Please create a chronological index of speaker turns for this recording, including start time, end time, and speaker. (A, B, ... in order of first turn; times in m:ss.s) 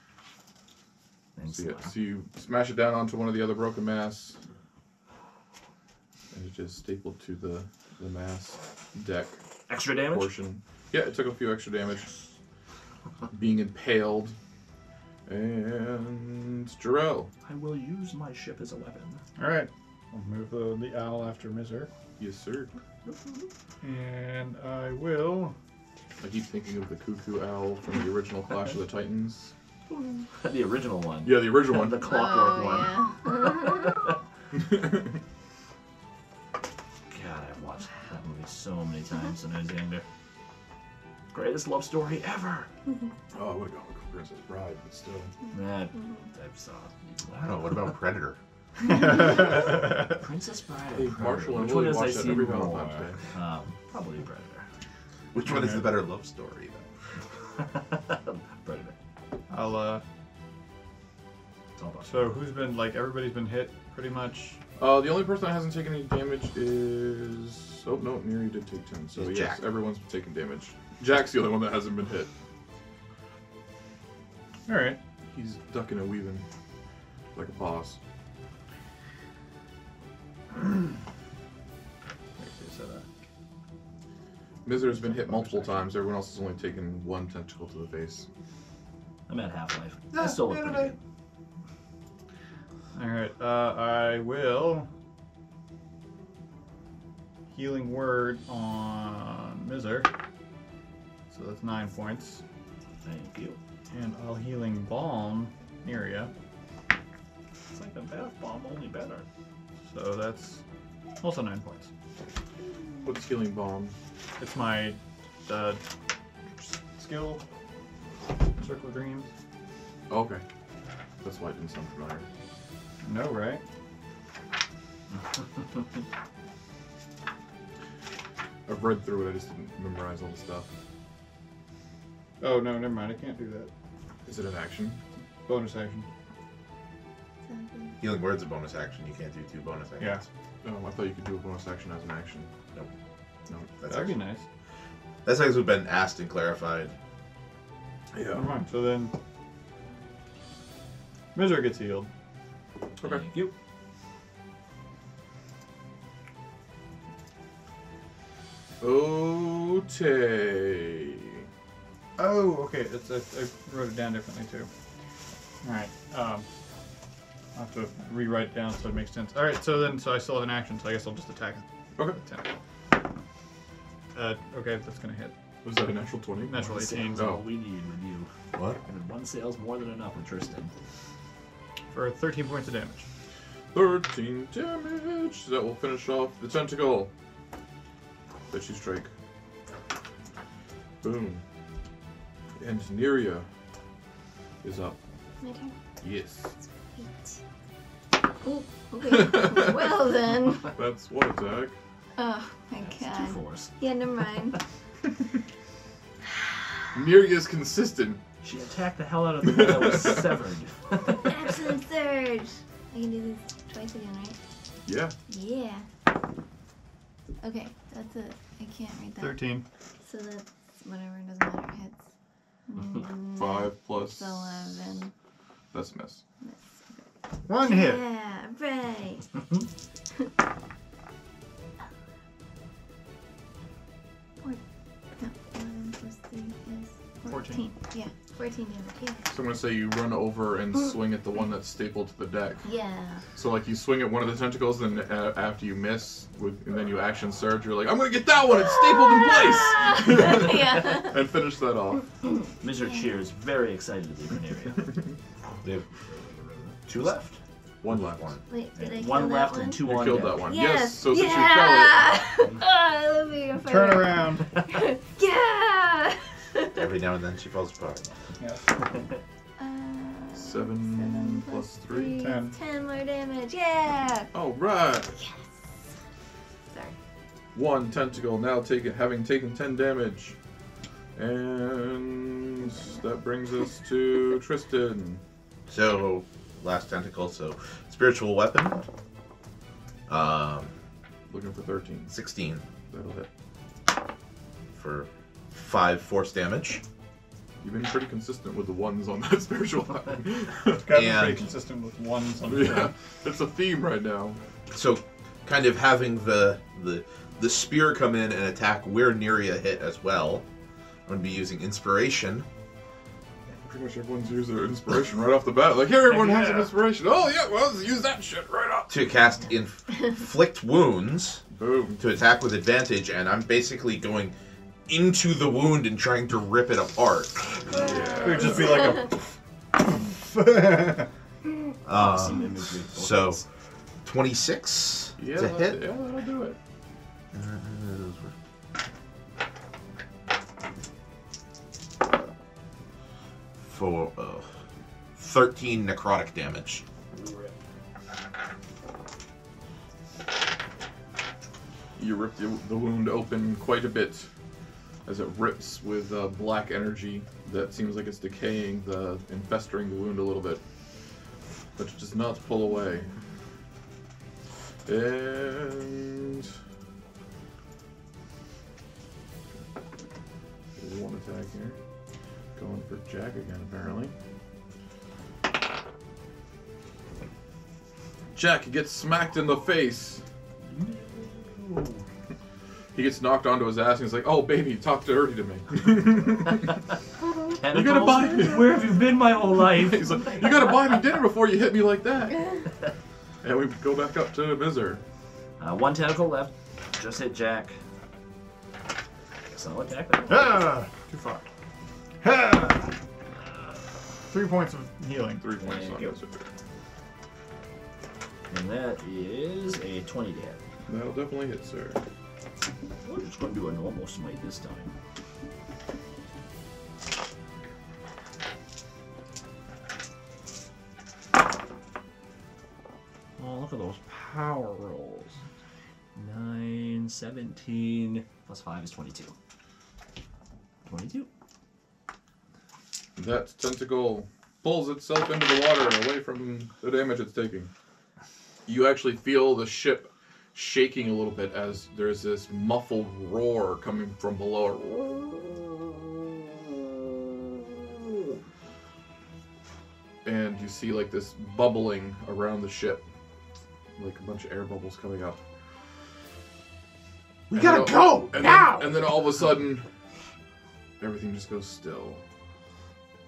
0:01.4-0:01.9 A
0:01.5-0:04.4 B
0:06.3-0:09.4 B
0:09.7-0:10.3 A
0:10.1-0:12.1 B
0:13.3-0:14.4 B
0:15.3-0:17.3 B
0:17.4-0:19.2 A
0:19.4-0:21.9 C
0:22.2-0:22.7 B
0:23.0-0:23.5 A
0:23.8-0:25.5 C
0:26.2-0:29.5 B
0:29.9-0:34.1 A
0:31.2-0:32.0 B
0:32.0-0:34.0 D
0:34.5-0:35.2 B
0:37.1-0:40.0 A
0:41.3-0:42.7 A
0:43.3-0:45.3 B
0:45.4-0:46.3 D
0:45.5-0:47.9 A
0:47.3-0:48.4 E
0:48.8-0:50.2 C
0:49.0-0:54.6 A
0:50.9-0:53.2 B
0:55.3-0:56.8 E
0:55.4-0:55.9 C
0:57.6-0:58.9 A
0:59.5-1:00.0 C
1:01.8-1:02.2 A
1:02.0-1:04.6 C
1:04.8-1:12.3 B
1:09.1-1:09.6 E
1:14.7-1:15.0 C
1:15.3-1:16.4 B
1:17.3-1:18.0 B
1:22.4-1:23.0 C
1:24.6-1:28.3 B
1:25.3-1:25.6 A
1:29.3-1:31.0 A
1:30.2-1:30.9 E
1:32.9-1:34.9 C
1:37.5-1:40.1 C
1:41.3-1:42.4 C
1:43.0-1:43.6 A
1:43.9-1:46.3 C
1:47.7-1:49.2 A
1:49.9-1:50.6 C
1:51.2-1:51.9 C
1:53.0-1:53.9 B
1:54.4-1:55.8 C
1:56.6-1:57.4 C
1:58.6-1:59.3 C
2:00.1-2:00.4 B
2:01.2-2:02.2 B
2:03.0-2:03.6 C
2:08.7-2:10.7 B
2:12.4-2:13.7 C
2:14.2-2:15.0 B
2:15.4-2:16.1 C
2:17.4-2:18.0 D
2:18.0-2:20.3 E
2:20.6-2:22.5 B
2:23.8-2:24.1 E
2:23.8-2:24.4 C
2:25.2-2:26.9 E
2:28.1-2:28.4 B
2:28.3-2:29.1 C
2:31.3-2:32.1 C
2:33.0-2:33.5 A
2:38.8-2:41.3 B
2:42.2-2:44.7 C
2:45.6-2:46.5 C
2:47.5-2:52.5 C
2:54.1-2:55.3 C
2:55.6-2:57.4 B
2:56.4-2:57.3 C
2:56.6-2:58.3 A
2:58.5-2:58.8 E
2:58.8-3:00.7 A
3:01.9-3:03.0 C
3:03.7-3:07.1 B
3:08.5-3:09.1 B
3:11.0-3:11.4 B
3:12.6-3:13.5 B
3:14.6-3:15.0 B
3:15.4-3:15.8 D
3:16.0-3:16.5 B
3:16.9-3:17.4 D
3:18.4-3:20.7 D
3:19.0-3:20.1 B
3:20.7-3:21.8 B
3:22.2-3:24.6 D
3:22.8-3:23.7 A
3:26.9-3:28.2 B
3:28.4-3:31.4 A
3:29.4-3:30.3 B
3:31.2-3:34.4 D
3:34.8-3:35.2 B
3:35.3-3:35.8 D
3:37.4-3:39.5 D
3:39.2-3:39.6 C
3:40.0-3:42.0 D
3:42.7-3:45.1 D
3:43.3-3:44.5 B
3:45.7-3:46.2 B
3:46.4-3:47.0 D
3:47.4-3:48.1 C
3:47.6-3:49.4 D
3:55.2-3:59.2 D
3:57.2-3:57.7 C
3:59.3-4:02.6 B
4:02.6-4:03.2 D
4:03.3-4:12.1 B
4:08.5-4:11.2 D
4:12.6-4:14.9 A
4:12.8-4:13.1 D
4:16.1-4:16.8 A
4:16.8-4:18.4 E
4:17.8-4:18.4 B
4:18.5-4:26.8 D
4:18.8-4:20.4 A
4:19.8-4:22.1 B
4:23.6-4:24.5 C
4:26.7-4:28.1 E
4:28.4-4:28.8 C
4:29.6-4:34.3 D
4:30.3-4:32.2 B
4:32.2-4:32.6 C
4:34.3-4:35.2 B
4:35.2-4:35.4 D
4:36.7-4:37.0 D
4:37.5-4:40.4 B
4:41.2-4:45.2 B
4:42.6-4:43.0 D
4:45.7-4:48.9 E
4:50.1-4:50.7 E
4:51.3-4:52.1 B
4:52.1-4:52.6 E
4:52.9-4:53.3 B
4:54.7-4:56.8 E
4:57.6-5:00.9 B
5:00.8-5:02.9 C
5:00.9-5:01.4 E
5:02.4-5:04.4 B
5:04.7-5:10.4 E
5:11.1-5:12.4 E
5:13.6-5:19.0 B
5:16.0-5:16.7 A
5:18.9-5:21.4 E
5:21.5-5:22.0 B
5:22.0-5:24.3 E
5:24.9-5:27.9 E
5:27.7-5:28.8 B
5:27.7-5:29.1 D
5:28.2-5:31.1 C
5:31.8-5:33.4 E
5:31.9-5:33.4 A
5:34.0-5:35.8 E
5:35.2-5:36.6 B
5:37.3-5:38.3 E
5:43.6-5:44.5 E
5:45.2-5:46.8 E
5:47.1-5:47.5 A
5:52.0-5:54.3 B
5:55.0-6:00.6 B
6:01.8-6:03.2 B
6:04.8-6:06.5 B
6:10.8-6:11.8 B
6:12.6-6:14.1 B
6:18.3-6:20.2 B
6:20.7-6:22.0 A
6:22.9-6:26.8 B
6:27.6-6:31.0 A
6:27.7-6:32.5 B
6:33.4-6:35.0 B
6:35.6-6:37.8 A
6:39.5-6:40.8 A
6:40.3-6:41.4 C
6:42.2-6:42.9 C
6:43.4-6:43.8 A
6:44.3-6:45.5 C
6:45.4-6:46.4 B
6:45.6-6:46.2 A
6:48.5-6:50.6 A
6:50.9-6:52.0 B
6:53.0-6:54.9 A
7:03.4-7:05.4 A
7:06.2-7:09.3 A
7:10.8-7:11.3 A
7:13.2-7:17.7 B
7:18.6-7:25.4 B
7:30.2-7:33.0 B
7:34.0-7:35.4 B
7:37.5-7:38.9 E
7:37.5-7:39.8 B
7:41.0-7:42.2 B